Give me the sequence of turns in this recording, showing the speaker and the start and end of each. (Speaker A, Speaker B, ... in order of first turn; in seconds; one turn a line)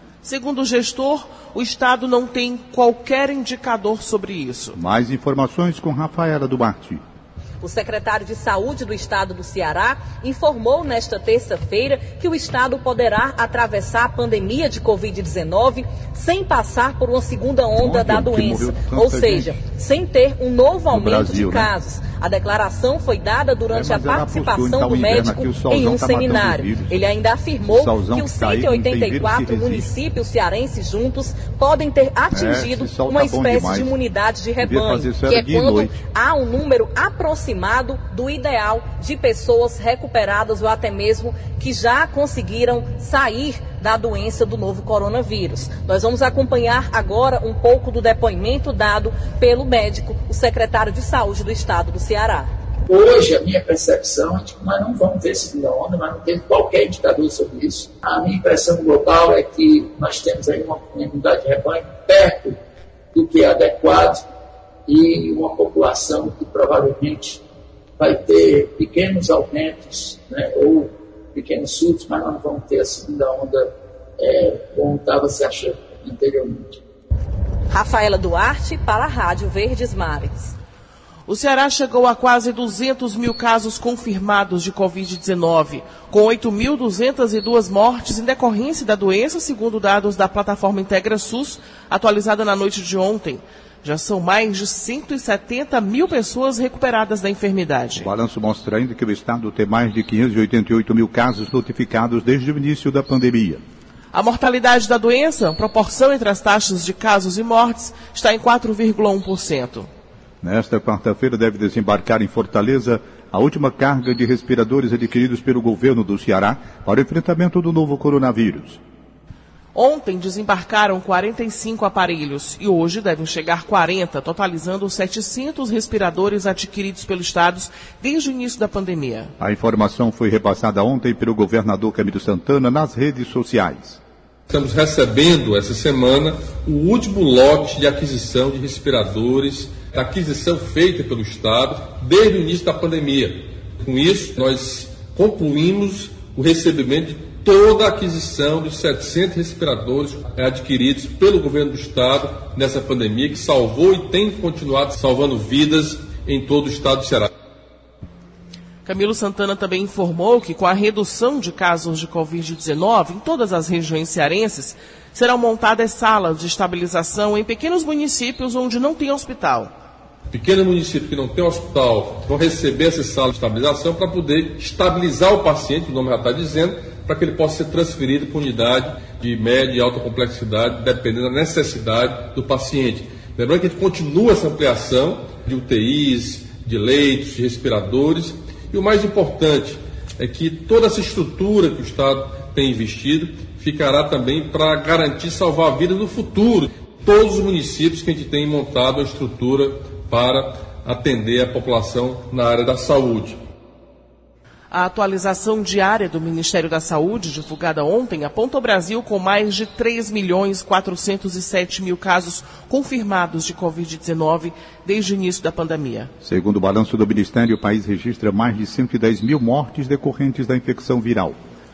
Speaker A: 0.2-4.8
Speaker B: 4.7-7.0
Speaker C: 7.6-52.5
Speaker B: 17.7-19.6
Speaker B: 20.9-21.7
Speaker B: 23.7-27.1
Speaker B: 27.6-30.0
Speaker B: 32.3-34.0
Speaker B: 34.6-36.0
Speaker D: 52.9-62.6
Speaker D: 63.1-64.2
Speaker D: 64.9-67.4
Speaker D: 68.0-76.8
Speaker C: 77.7-80.5
Speaker A: 81.3-98.1
Speaker B: 98.0-103.6
Speaker A: 104.1-109.9
Speaker B: 110.4-118.8
Speaker A: 119.7-129.3
Speaker B: 129.4-134.0
Speaker E: 134.5-157.3
Speaker A: 158.8-169.7
Speaker E: 170.3-203.4
Speaker A: 204.7-216.1
Speaker B: 216.2-221.4